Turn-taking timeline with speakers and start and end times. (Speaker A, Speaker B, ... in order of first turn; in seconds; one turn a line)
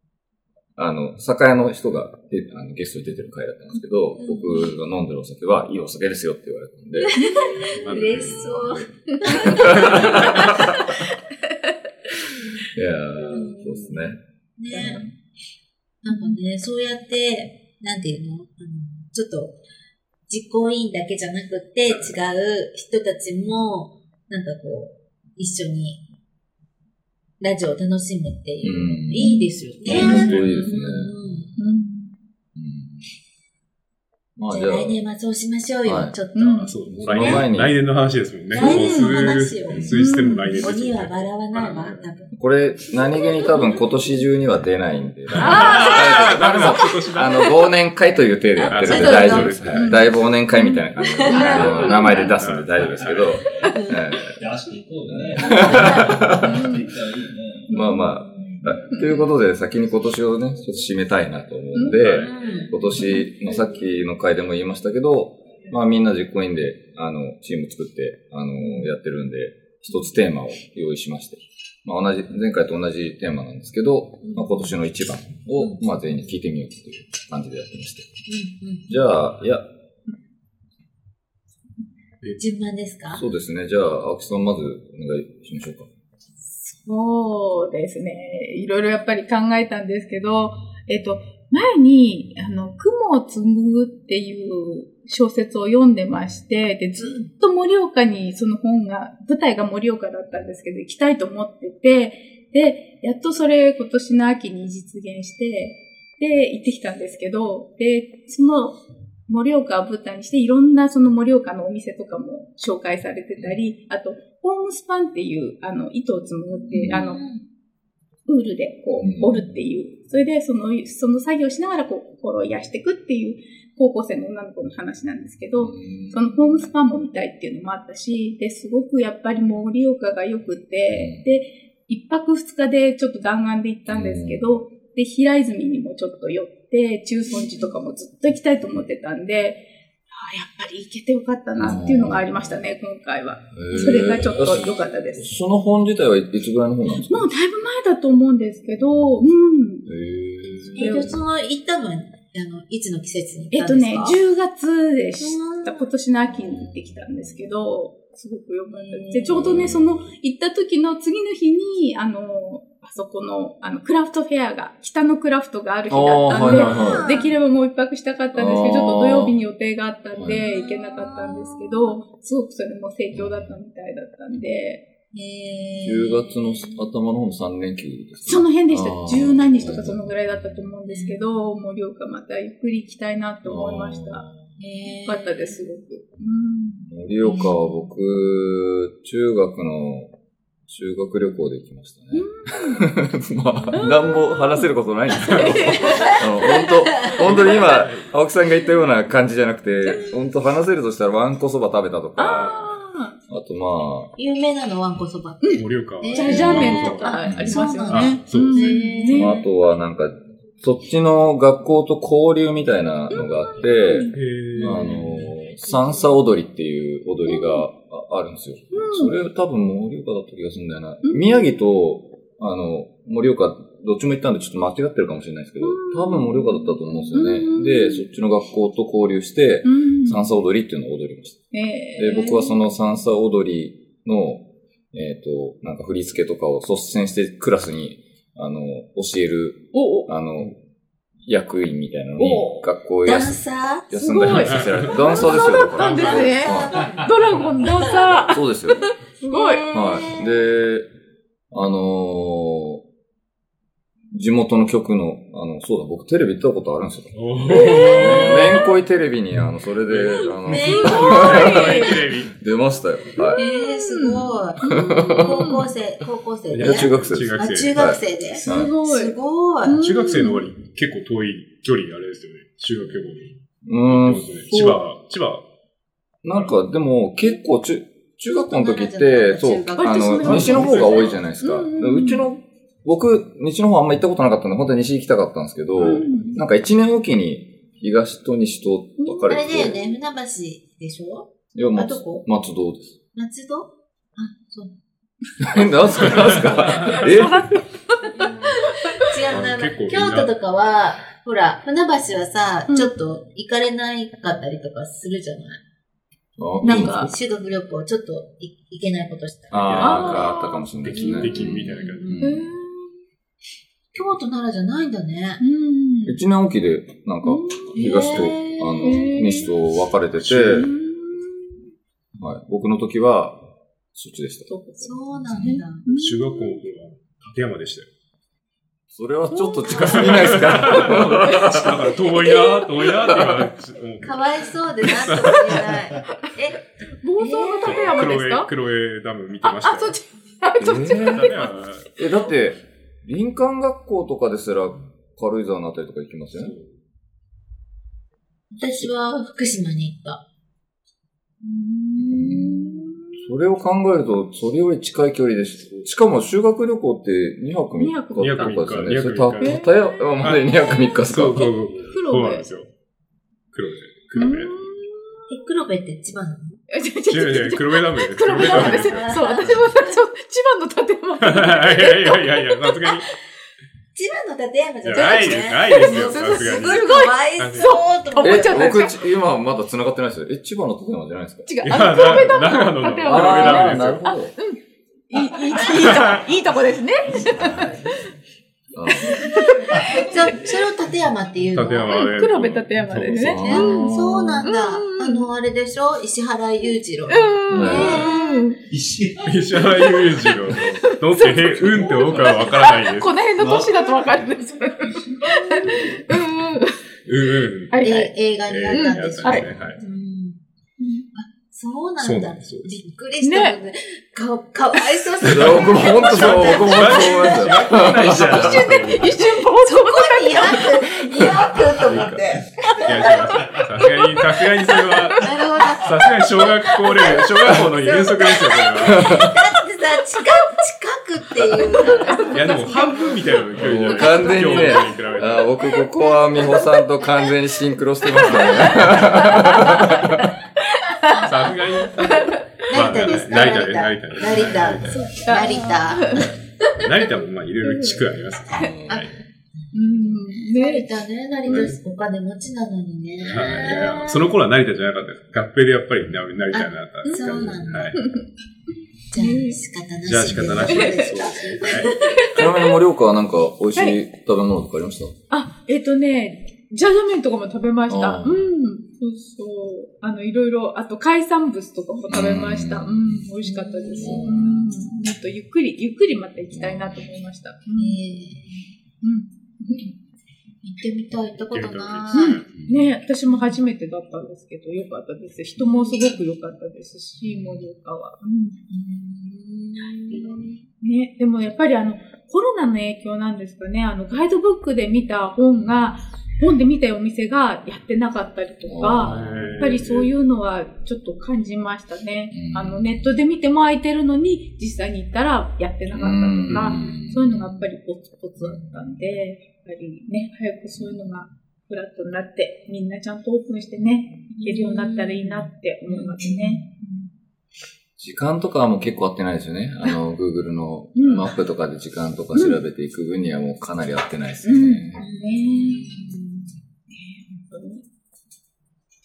Speaker A: 0.8-7.2
Speaker B: 4.2-4.8
Speaker B: 7.0-10.7
Speaker C: 7.2-7.7
Speaker D: 7.7-8.8
Speaker A: 7.9-10.7
Speaker C: 9.2-10.8
Speaker A: 12.7-14.2
Speaker B: 13.3-14.0
Speaker B: 14.6-15.1
Speaker C: 14.7-15.1
Speaker B: 16.0-19.6
Speaker C: 16.1-16.4
Speaker B: 20.3-26.0
Speaker D: 21.9-22.1
Speaker B: 27.4-31.6
Speaker A: 28.6-29.3
Speaker C: 29.1-30.3
Speaker A: 29.8-31.1
Speaker D: 29.9-30.5
Speaker C: 31.6-32.1
Speaker A: 32.5-33.0
Speaker A: 34.4-35.0
Speaker B: 34.5-37.5
Speaker A: 35.8-36.1
Speaker C: 36.3-36.7
Speaker D: 36.6-42.1
Speaker A: 36.9-37.8
Speaker B: 38.5-39.8
Speaker C: 38.6-39.3
Speaker A: 39.7-40.0
Speaker C: 39.9-40.7
Speaker B: 40.6-42.3
Speaker A: 42.3-54.4
Speaker D: 45.3-47.5
Speaker C: 45.4-46.9
Speaker B: 48.5-49.6
Speaker D: 48.7-50.1
Speaker C: 49.7-52.3
Speaker B: 51.0-52.4
Speaker D: 51.4-53.4
Speaker E: 52.8-53.6
Speaker B: 53.6-54.0
Speaker E: 54.3-57.7
Speaker A: 55.1-56.6
Speaker C: 56.4-56.9
Speaker A: 57.7-78.1
Speaker B: 57.7-59.2
Speaker C: 58.9-59.2
Speaker C: 61.7-62.0
Speaker D: 61.8-62.4
Speaker B: 62.2-62.8
Speaker C: 62.9-63.3
Speaker B: 75.5-75.8
Speaker B: 78.3-78.9
Speaker A: 78.9-79.7
Speaker B: 82.4-83.2
Speaker A: 83.1-85.9
Speaker C: 86.6-117.2
Speaker B: 97.0-97.3
Speaker B: 116.5-117.4
Speaker A: 116.7-117.0
Speaker C: 118.3-145.2
Speaker A: 119.0-119.5
Speaker A: 125.6-126.2
Speaker A: 130.9-131.3
Speaker A: 133.9-134.4
Speaker B: 137.3-137.7
Speaker A: 141.6-142.6
Speaker A: 143.5-147.3
Speaker C: 147.0-149.9
Speaker A: 148.9-149.3
Speaker A: 149.8-151.1
Speaker B: 150.7-154.2
Speaker C: 150.8-151.1
Speaker C: 153.5-174.8
Speaker B: 155.2-155.9
Speaker A: 156.4-157.4
Speaker B: 158.7-159.5
Speaker A: 159.3-160.0
Speaker A: 165.9-167.1
Speaker B: 166.3-167.3
Speaker A: 168.3-169.4
Speaker A: 170.1-170.5
Speaker B: 170.4-172.0
Speaker A: 173.1-173.5
Speaker B: 175.1-176.9
Speaker A: 175.8-180.2
Speaker C: 178.2-184.2
Speaker B: 180.9-181.2
Speaker A: 183.4-184.6
Speaker B: 184.6-185.7
Speaker C: 185.0-186.8
Speaker A: 186.8-190.1
Speaker B: 187.2-187.9
Speaker A: 190.7-202.7
Speaker C: 192.1-192.8
Speaker B: 193.6-194.0
Speaker C: 193.7-194.2
Speaker C: 195.2-196.2
Speaker D: 195.3-195.5
Speaker B: 195.8-197.6
Speaker D: 197.2-198.1
Speaker C: 202.2-203.2
Speaker A: 203.3-204.1
Speaker B: 204.2-209.4
Speaker C: 205.4-209.4
Speaker D: 205.5-207.3
Speaker A: 206.3-207.7
Speaker D: 207.8-208.7
Speaker A: 209.1-240.5
Speaker C: 213.1-214.9
Speaker D: 214.1-215.0
Speaker B: 214.6-215.0
Speaker B: 215.7-216.1
Speaker C: 217.3-217.6
Speaker C: 218.7-219.1
Speaker C: 221.0-221.6
Speaker C: 225.6-228.1
Speaker C: 229.6-230.2
Speaker C: 231.5-232.6
Speaker C: 239.7-240.1
Speaker A: 241.2-247.0
Speaker C: 242.2-242.7
Speaker B: 243.0-243.9
Speaker C: 243.9-249.7
Speaker D: 244.4-245.2
Speaker D: 245.7-246.5
Speaker B: 246.1-247.0
Speaker B: 247.8-248.2
Speaker A: 248.3-248.9
Speaker B: 249.3-250.4
Speaker A: 249.7-250.9
Speaker A: 251.5-252.8
Speaker A: 254.1-257.2
Speaker D: 257.1-258.6
Speaker B: 257.5-258.4
Speaker C: 257.5-258.6
Speaker A: 257.9-263.4
Speaker D: 259.9-262.3
Speaker B: 260.4-261.8
Speaker C: 260.5-262.0
Speaker C: 263.1-265.7
Speaker B: 263.3-269.8
Speaker A: 264.6-265.5
Speaker D: 266.5-267.7
Speaker A: 266.6-268.7
Speaker C: 268.4-269.1
Speaker C: 269.6-270.5
Speaker D: 269.8-275.4
Speaker A: 273.6-274.8
Speaker A: 276.2-289.8
Speaker B: 278.3-281.1
Speaker C: 279.8-282.2
Speaker D: 280.2-281.2
Speaker C: 285.8-286.4
Speaker D: 285.8-286.1
Speaker C: 289.0-289.5
Speaker B: 289.3-292.2
Speaker A: 291.5-292.9
Speaker B: 293.1-294.7
Speaker A: 295.4-297.6
Speaker B: 295.8-296.3
Speaker D: 296.4-297.0
Speaker C: 296.9-299.1
Speaker B: 298.1-305.6
Speaker D: 299.3-300.3
Speaker A: 306.4-307.1
Speaker B: 306.6-310.2
Speaker C: 306.6-307.1
Speaker A: 309.5-312.5
Speaker D: 309.6-312.1
Speaker C: 309.8-310.6
Speaker B: 310.9-312.3
Speaker C: 312.2-312.9
Speaker B: 313.9-315.4
Speaker C: 315.4-316.2
Speaker A: 316.0-320.7
Speaker C: 317.2-317.8
Speaker B: 317.7-319.2
Speaker C: 318.8-319.5
Speaker D: 320.2-320.7
Speaker C: 320.5-321.6
Speaker A: 322.2-323.4
Speaker A: 323.9-324.5
Speaker C: 324.5-326.6
Speaker B: 324.8-325.9
Speaker A: 325.1-325.6
Speaker D: 325.9-327.9
Speaker A: 328.9-331.9
Speaker C: 329.3-333.1
Speaker D: 329.7-335.6
Speaker B: 334.0-336.6
Speaker C: 335.2-335.6
Speaker C: 337.0-338.5
Speaker B: 337.1-338.1
Speaker D: 337.6-340.0
Speaker C: 339.4-341.7
Speaker A: 340.6-341.4
Speaker D: 341.0-341.9
Speaker A: 342.0-346.5
Speaker D: 346.4-346.7
Speaker B: 348.5-350.2
Speaker C: 351.4-353.1
Speaker B: 352.0-352.9
Speaker A: 352.1-361.5
Speaker C: 357.8-358.6
Speaker D: 358.2-359.6
Speaker C: 359.4-360.1
Speaker D: 360.2-360.5
Speaker D: 361.0-362.7
Speaker C: 361.8-362.4
Speaker D: 363.5-364.6
Speaker C: 364.2-365.3
Speaker B: 365.3-366.6
Speaker C: 366.7-373.1
Speaker D: 367.1-369.6
Speaker B: 368.4-369.9
Speaker D: 371.2-373.1
Speaker B: 373.9-378.9
Speaker D: 374.8-377.8
Speaker C: 375.7-378.9
Speaker A: 378.2-381.5
Speaker C: 381.4-384.6
Speaker D: 381.6-384.1
Speaker A: 383.0-384.4
Speaker C: 385.1-388.0
Speaker D: 385.7-386.2
Speaker A: 388.7-389.3
Speaker C: 389.0-390.1
Speaker B: 389.9-392.0
Speaker D: 391.5-393.8
Speaker C: 391.9-395.3
Speaker A: 393.2-394.0
Speaker B: 393.4-398.4
Speaker C: 397.1-398.6
Speaker A: 397.5-398.1
Speaker E: 398.7-400.0
Speaker D: 399.2-403.2
Speaker C: 399.8-406.8
Speaker E: 401.6-402.7
Speaker E: 403.4-404.3
Speaker E: 404.9-405.2
Speaker D: 407.1-407.8
Speaker C: 407.7-408.1
Speaker B: 407.8-410.4
Speaker D: 408.4-409.8
Speaker C: 408.7-409.4
Speaker C: 410.8-411.1
Speaker B: 411.1-417.7
Speaker D: 412.0-412.7
Speaker C: 413.2-413.5
Speaker D: 415.2-419.3
Speaker A: 415.2-418.7
Speaker C: 418.0-421.3
Speaker B: 419.3-423.6
Speaker D: 421.8-429.3
Speaker C: 422.7-423.2
Speaker C: 424.7-425.2
Speaker B: 425.1-433.4
Speaker A: 428.8-429.3
Speaker C: 431.9-433.4
Speaker D: 432.1-435.5
Speaker A: 433.6-440.3
Speaker B: 433.9-434.7
Speaker C: 434.0-434.6
Speaker C: 438.2-440.1
Speaker C: 440.7-442.4
Speaker D: 441.1-445.1
Speaker B: 442.6-446.3
Speaker C: 444.9-446.3
Speaker D: 446.7-449.1
Speaker C: 447.6-448.7
Speaker A: 448.5-449.1
Speaker B: 449.6-454.4
Speaker C: 449.7-450.9
Speaker D: 451.5-451.8
Speaker D: 453.2-458.0
Speaker B: 456.5-458.0
Speaker C: 457.0-457.4
Speaker A: 457.3-457.9
Speaker C: 458.0-458.2
Speaker B: 459.1-462.4
Speaker C: 459.1-459.6
Speaker D: 460.0-462.0
Speaker C: 460.6-462.7
Speaker A: 462.3-465.1
Speaker C: 465.3-478.0
Speaker A: 467.9-468.5
Speaker A: 472.1-473.3
Speaker B: 473.4-474.5
Speaker A: 474.0-474.8
Speaker A: 476.5-477.1
Speaker B: 477.8-478.7
Speaker C: 479.0-479.9
Speaker B: 480.6-482.4
Speaker D: 481.5-482.5
Speaker C: 482.1-488.6
Speaker A: 482.5-482.9
Speaker B: 483.3-483.6
Speaker B: 485.6-486.2
Speaker B: 488.7-490.6
Speaker C: 490.8-516.9
Speaker A: 498.6-499.4
Speaker D: 499.0-500.1
Speaker A: 502.3-503.1
Speaker A: 505.9-507.7
Speaker A: 508.4-508.9
Speaker B: 514.3-516.7
Speaker A: 518.0-525.0
Speaker C: 520.9-521.3
Speaker C: 524.4-526.0
Speaker B: 525.0-526.5
Speaker C: 526.9-527.8